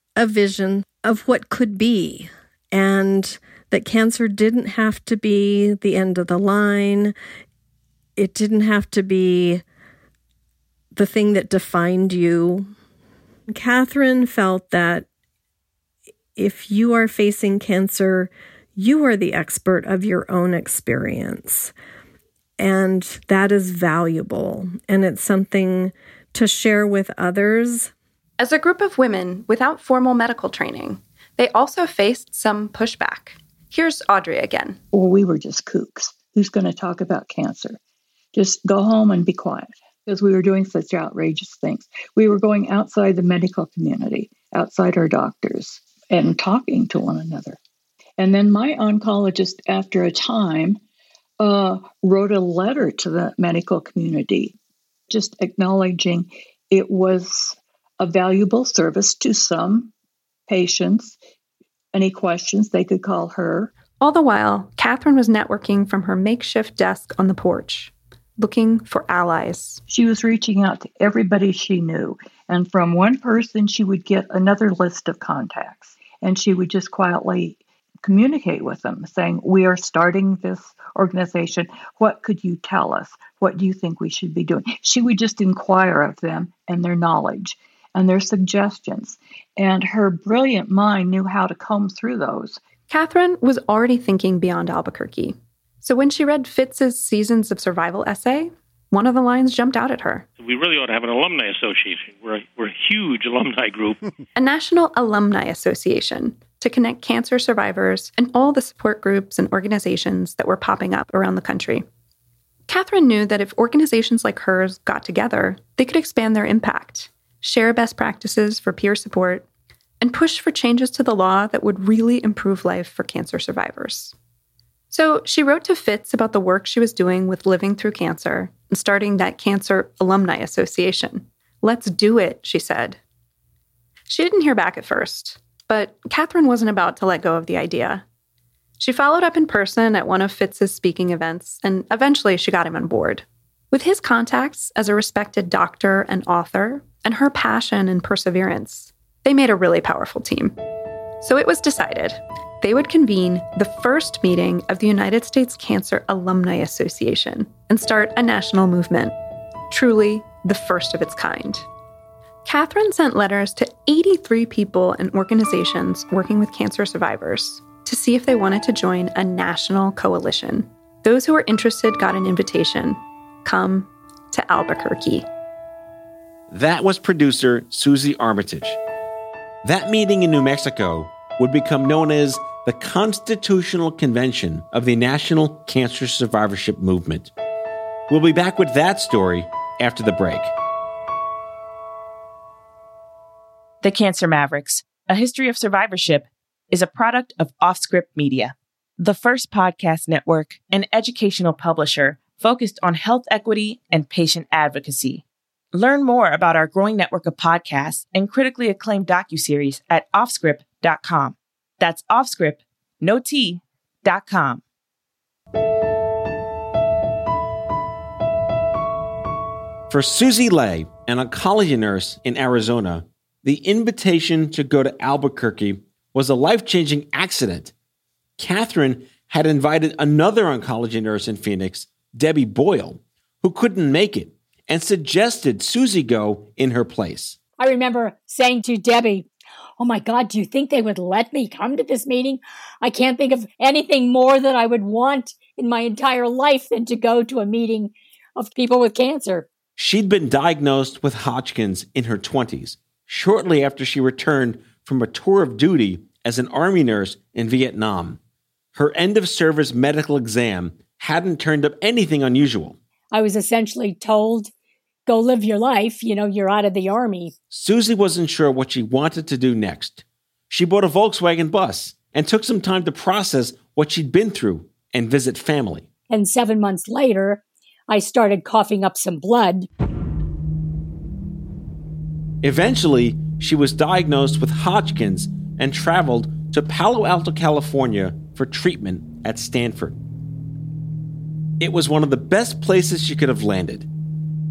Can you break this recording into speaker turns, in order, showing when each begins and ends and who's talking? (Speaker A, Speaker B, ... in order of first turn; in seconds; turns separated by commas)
Speaker A: 0.2-7.2, Speaker A: 8.2-9.6, Speaker A: 10.9-12.7, Speaker A: 13.5-15.1, Speaker A: 16.4-21.7, Speaker A: 22.6-27.9, Speaker B: 28.4-34.8, Speaker C: 34.9-37.8, Speaker C: 38.4-47.6, Speaker C: 48.2-50.8, Speaker C: 51.4-54.6, Speaker C: 55.1-59.9, Speaker C: 60.5-61.2, Speaker C: 61.9-63.7, Speaker B: 64.0-69.8, Speaker C: 69.9-92.6, Speaker B: 92.9-100.2, Speaker D: 100.4-104.0, Speaker B: 104.4-111.8, Speaker B: 112.7-119.5, Speaker B: 120.0-124.1, Speaker B: 124.9-133.0, Speaker B: 134.1-138.1, Speaker B: 138.8-150.6, Speaker B: 151.2-159.2, Speaker B: 159.7-161.7, Speaker B: 162.4-175.3, Speaker E: 176.5-178.8, Speaker E: 179.6-187.3, Speaker E: 188.1-190.5, Speaker F: 193.8-214.6, Speaker E: 219.9-227.7, Speaker E: 228.4-237.4, Speaker G: 237.6-239.3, Speaker G: 239.8-249.5, Speaker E: 249.8-258.2, Speaker E: 258.8-262.8, Speaker G: 263.1-264.5, Speaker G: 265.1-267.3, Speaker E: 267.5-275.9, Speaker G: 276.1-279.7, Speaker E: 282.4-290.0, Speaker E: 291.6-293.9